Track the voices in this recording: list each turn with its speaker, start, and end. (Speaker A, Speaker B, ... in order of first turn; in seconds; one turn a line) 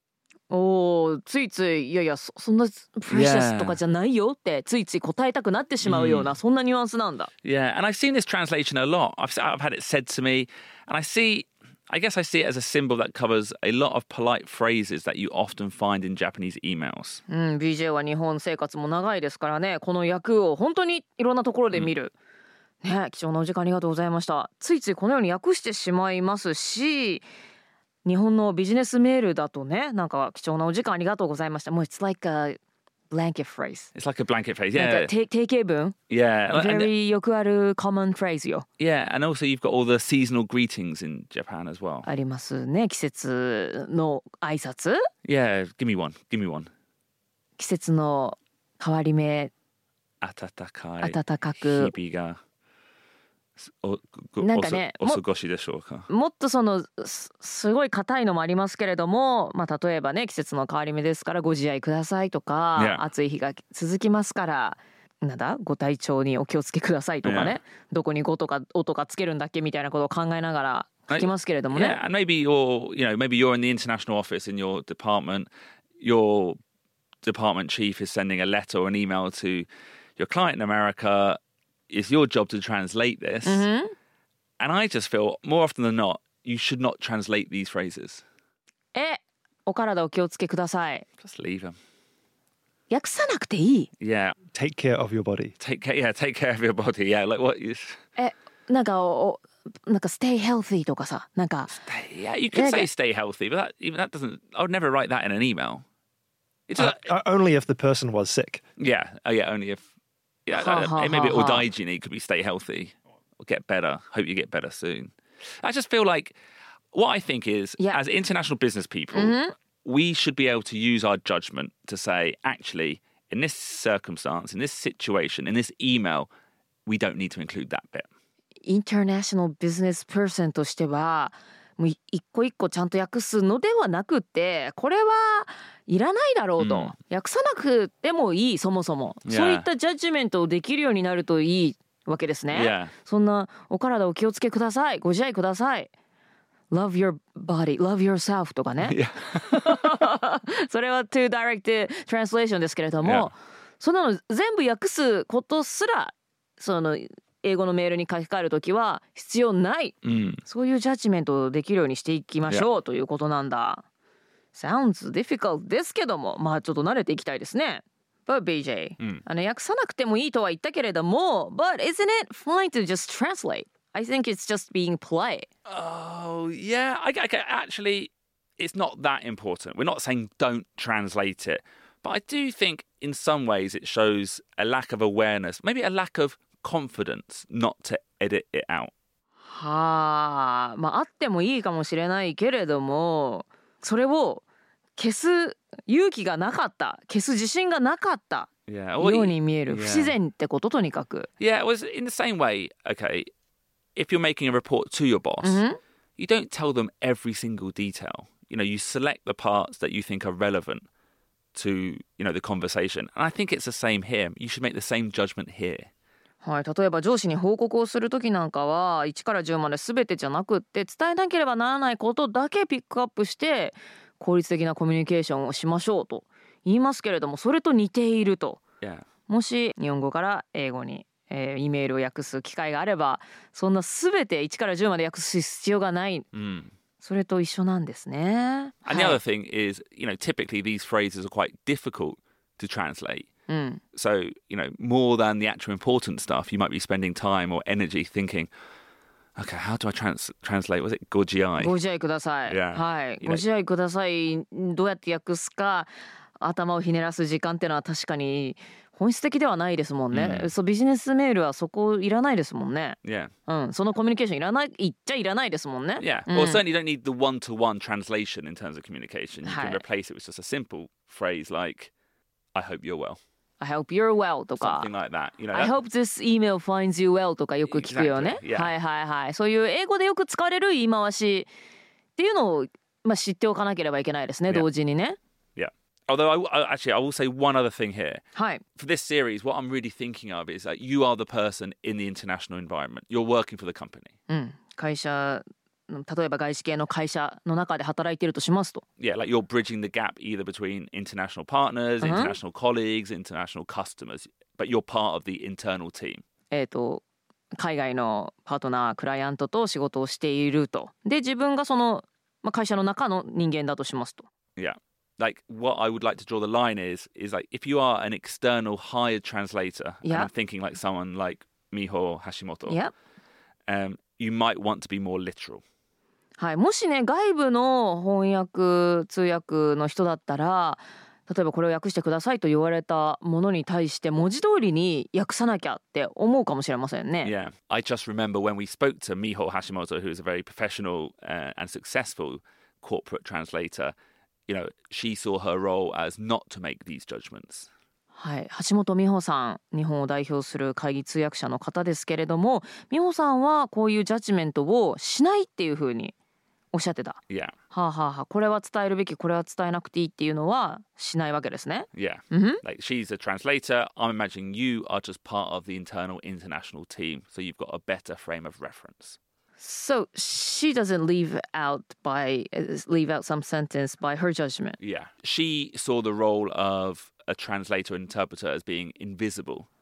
Speaker A: 0.5-7.3
Speaker B: 3.1-3.8
Speaker B: 5.8-6.3
Speaker B: 7.4-17.2
Speaker A: 17.3-22.1
Speaker A: 22.8-27.2
Speaker A: 28.0-32.6
Speaker A: 33.1-33.9
Speaker B: 33.9-35.1
Speaker A: 34.7-36.0
Speaker B: 36.1-36.9
Speaker A: 36.5-38.6
Speaker B: 38.8-42.1
Speaker A: 42.0-45.0
Speaker B: 45.2-46.7
Speaker A: 47.6-49.5
Speaker B: 50.2-52.4
Speaker A: 51.0-51.9
Speaker B: 53.6-56.1
Speaker A: 54.4-55.2
Speaker A: 56.1-72.0
Speaker B: 62.8-63.0
Speaker B: 67.2-67.6
Speaker B: 71.1-76.6
Speaker B: 77.2-81.4
Speaker B: 81.9-83.7
Speaker A: 83.4-83.9
Speaker B: 84.6-88.2
Speaker A: 88.9-91.0
Speaker B: 91.2-91.8
Speaker A: 92.9-93.9
Speaker B: 94.0-94.4
Speaker C: 94.5-95.5
Speaker B: 95.6-98.0
Speaker A: 98.2-101.8
Speaker B: 101.7-105.8
Speaker A: 102.5-102.9
Speaker B: 106.7-107.0
Speaker C: 106.8-108.6
Speaker B: 108.8-109.8
Speaker B: 110.5-116.3
Speaker A: 110.5-111.7
Speaker B: 116.9-126.3
Speaker A: 119.1-119.5
Speaker B: 126.8-128.1
Speaker A: 128.6-145.9
Speaker B: 136.6-136.9
Speaker B: 139.2-139.7
Speaker B: 142.5-142.9
Speaker A: 146.7-163.8
Speaker B: 148.8-149.7
Speaker B: 153.0-153.3
Speaker B: 160.0-160.4
Speaker A: 164.5-175.5
Speaker B: 175.7-188.9
Speaker A: 189.4-194.4
Speaker A: 194.9-201.3
Speaker B: 198.7-200.2
Speaker B: 201.4-203.3
Speaker B: 203.9-205.6
Speaker A: 205.4-205.8
Speaker B: 206.2-210.8
Speaker B: 211.5-215.9
Speaker A: 216.4-228.6
Speaker B: 228.8-229.1
Speaker A: 229.3-236.2
Speaker B: 236.3-236.7
Speaker A: 237.0-239.2
Speaker B: 238.8-243.3
Speaker A: 243.5-243.8
Speaker B: 243.9-248.5
Speaker B: 249.4-251.7
Speaker A: 251.6-266.6
Speaker B: 252.5-253.4
Speaker B: 260.1-260.5
Speaker B: 263.0-263.3
Speaker B: 266.0-271.9
Speaker A: 269.4-269.8
Speaker B: 272.5-273.2
Speaker A: 273.6-274.9
Speaker B: 274.6-275.7
Speaker A: 275.5-281.5
Speaker B: 277.7-278.7
Speaker A: 282.1-285.2
Speaker B: 285.6-288.2
Speaker A: 288.3-288.6
Speaker B: 288.8-294.1
Speaker A: 294.3-298.8
Speaker B: 299.0-306.2
Speaker A: 302.0-302.4
Speaker A: 306.5-307.0
Speaker A: 307.6-314.3
Speaker B: 314.6-322.8
Speaker A: 320.0-320.3
Speaker A: 322.7-322.9
Speaker B: 323.7-325.6
Speaker A: 326.4-337.3
Speaker B: 337.2-343.9
Speaker B: 344.5-347.7
Speaker A: 348.1-356.1
Speaker A: 356.7-362.6
Speaker B: 361.9-369.2
Speaker A: 369.6-374.8
Speaker B: 374.8-379.7